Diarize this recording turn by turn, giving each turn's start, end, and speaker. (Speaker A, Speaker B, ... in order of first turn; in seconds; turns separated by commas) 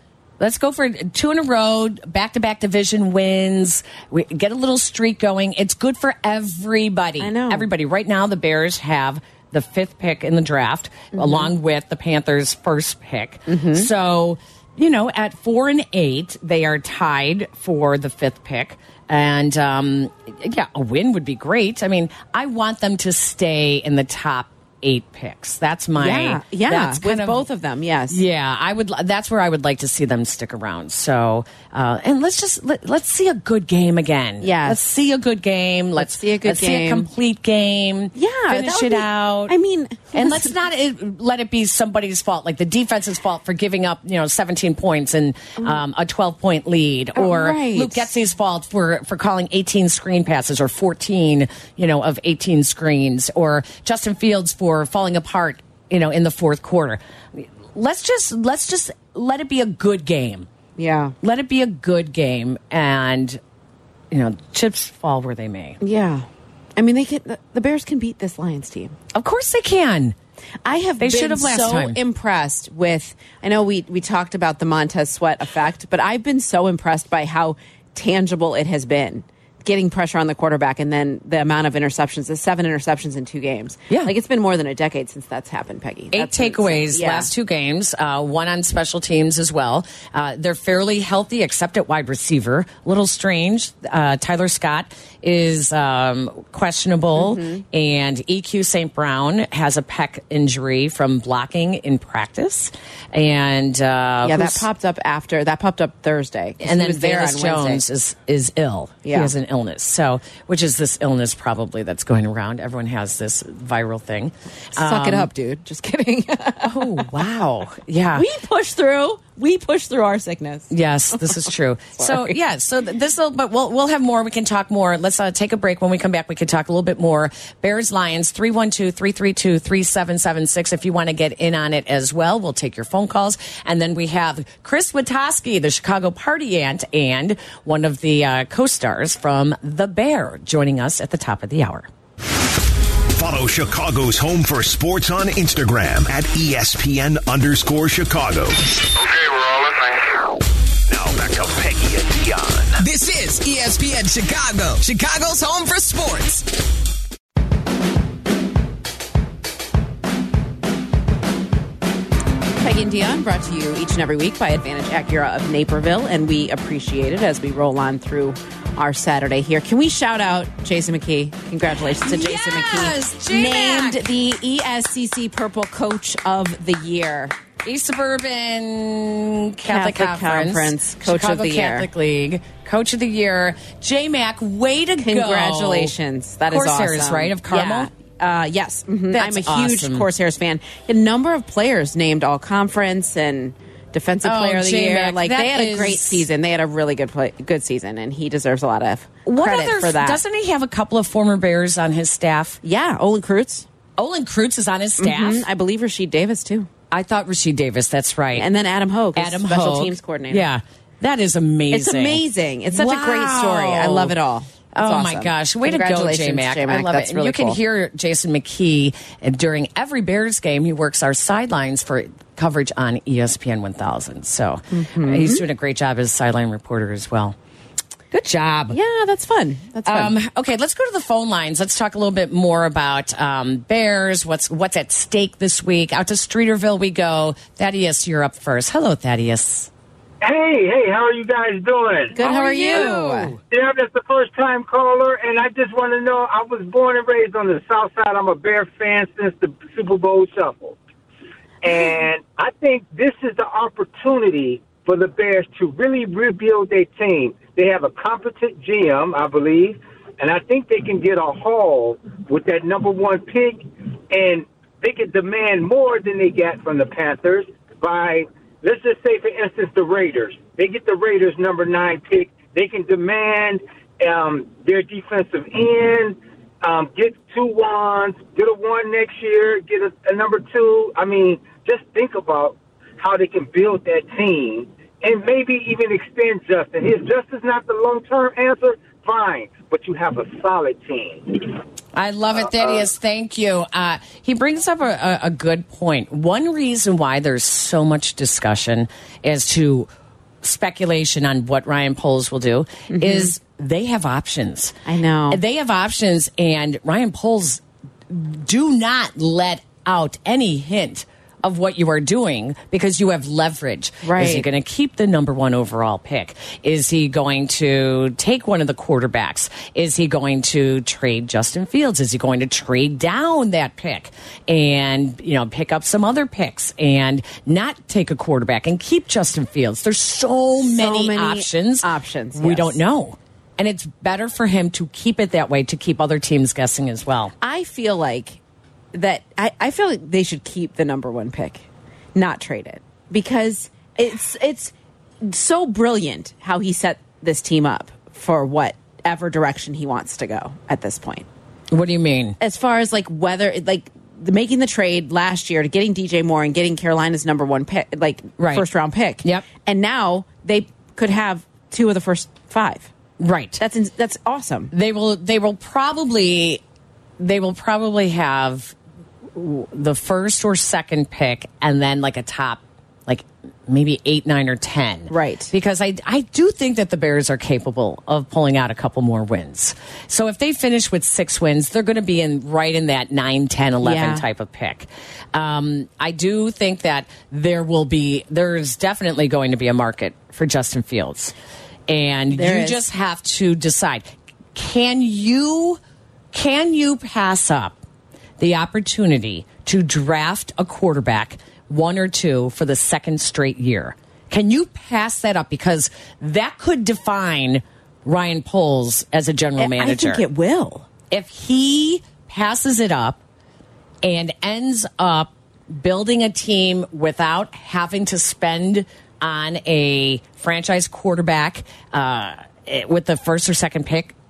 Speaker A: 0.4-27.5, Speaker B: 7.2-7.7, Speaker B: 11.1-11.5, Speaker B: 13.5-13.9, Speaker B: 26.0-28.2, Speaker A: 28.1-39.6, Speaker B: 34.4-34.8, Speaker B: 36.0-37.1, Speaker B: 38.1-40.5, Speaker A: 40.1-60.5, Speaker B: 47.2-48.1, Speaker B: 60.8-61.1, Speaker A: 61.2-63.4, Speaker A: 64.1-65.8, Speaker B: 65.8-69.0, Speaker A: 69.1-70.2, Speaker B: 70.7-87.3, Speaker A: 71.0-72.0, Speaker A: 86.1-104.7, Speaker B: 97.2-97.6, Speaker B: 104.2-107.8, Speaker A: 106.6-115.3, Speaker B: 109.0-109.3, Speaker B: 114.8-117.0, Speaker A: 116.6-118.3, Speaker B: 118.2-121.4, Speaker A: 120.7-141.9, Speaker B: 122.0-122.3, Speaker C: 143.1-148.8, Speaker C: 150.9-152.8, Speaker D: 152.8-156.4, Speaker B: 162.6-177.3, Speaker A: 171.8-174.0, Speaker A: 177.6-185.9, Speaker B: 179.7-181.9, Speaker B: 185.0-200.2, Speaker A: 186.5-187.9, Speaker A: 189.1-190.1, Speaker A: 194.2-196.3, Speaker A: 199.3-202.6, Speaker B: 202.6-203.7, Speaker A: 204.0-205.5, Speaker B: 205.0-206.7, Speaker A: 206.9-208.5, Speaker B: 208.3-210.5, Speaker A: 209.2-214.2, Speaker B: 211.7-217.6, Speaker A: 214.7-227.4, Speaker B: 224.7-225.4, Speaker A: 228.1-228.8, Speaker B: 228.7-230.2, Speaker A: 229.8-239.7, Speaker E: 240.2-242.2, Speaker B: 242.1-243.3, Speaker A: 242.2-243.4, Speaker E: 243.5-250.8, Speaker E: 251.6-291.6, Speaker A: 291.9-299.9, Speaker A: 300.4-304.8, Speaker B: 302.9-303.3, Speaker B: 304.9-305.4, Speaker A: 305.3-337.3, Speaker B: 314.0-314.5, Speaker B: 330.6-332.8, Speaker B: 337.4-338.4, Speaker B: 338.9-351.3, Speaker A: 351.7-352.4, Speaker B: 352.4-362.9, Speaker A: 358.4-358.7, Speaker A: 363.2-363.6, Speaker B: 363.6-364.7, Speaker A: 364.7-366.6, Speaker A: 367.2-368.8, Speaker A: 369.4-391.3, Speaker B: 375.1-375.5, Speaker B: 383.8-384.2, Speaker A: 391.9-395.8, Speaker B: 392.3-392.8, Speaker A: 396.3-397.8, Speaker A: 398.4-410.2, Speaker B: 409.6-410.9, Speaker A: 411.1-413.2, Speaker A: 414.0-424.1